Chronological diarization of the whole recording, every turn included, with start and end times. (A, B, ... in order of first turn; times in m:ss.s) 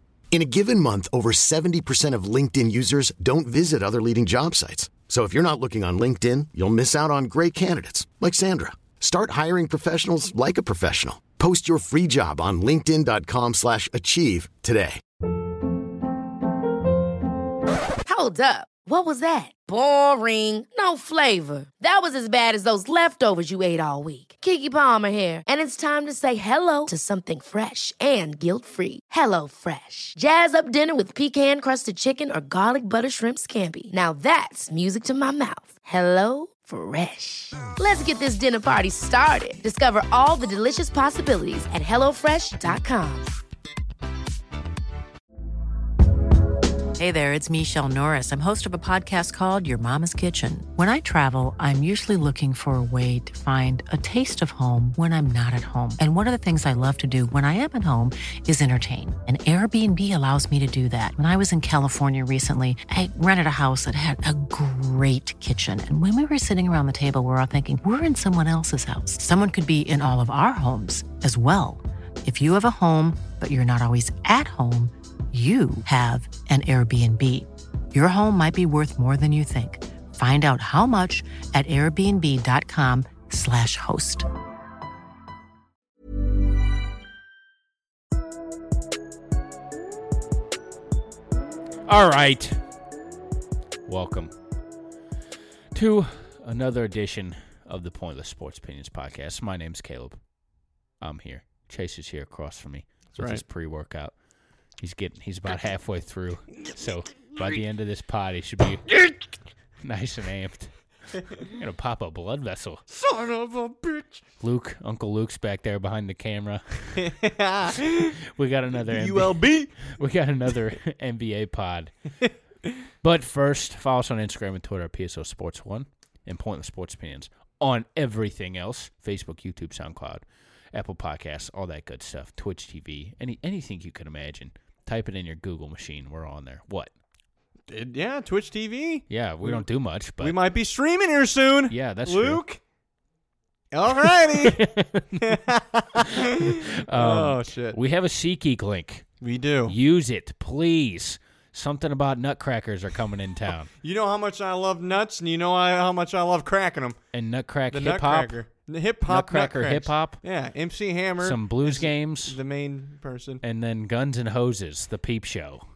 0:00.3-0:15.0 A
0:18.0-0:43.3 B
0:47.0-1:24.3 C
1:31.9-1:32.6 D
1:33.8-1:34.3 D
1:35.7-1:40.2 D
1:41.0-1:44.1 D
1:43.1-1:43.4 E
1:44.8-1:49.0 D
1:49.8-1:50.7 D
1:51.4-1:52.8 D
1:52.9-1:54.2 E
1:54.4-1:57.1 D
1:57.0-1:58.2 E
1:57.7-2:01.9 D
1:58.8-2:00.0 E
2:03.0-2:16.9 D
2:17.7-2:19.6 E
2:19.1-2:20.4 D
2:20.2-2:22.6 E
2:21.7-2:22.4 D
2:23.7-2:27.8 E
2:23.9-2:25.4 D
2:26.0-2:29.1 D
2:29.2-2:29.8 E
2:29.7-2:33.7 D
2:33.8-2:37.0 E
2:37.1-2:38.4 D
2:37.7-2:43.4 E
2:39.1-2:40.2 D
2:41.2-2:42.4 D
2:43.4-2:45.6 D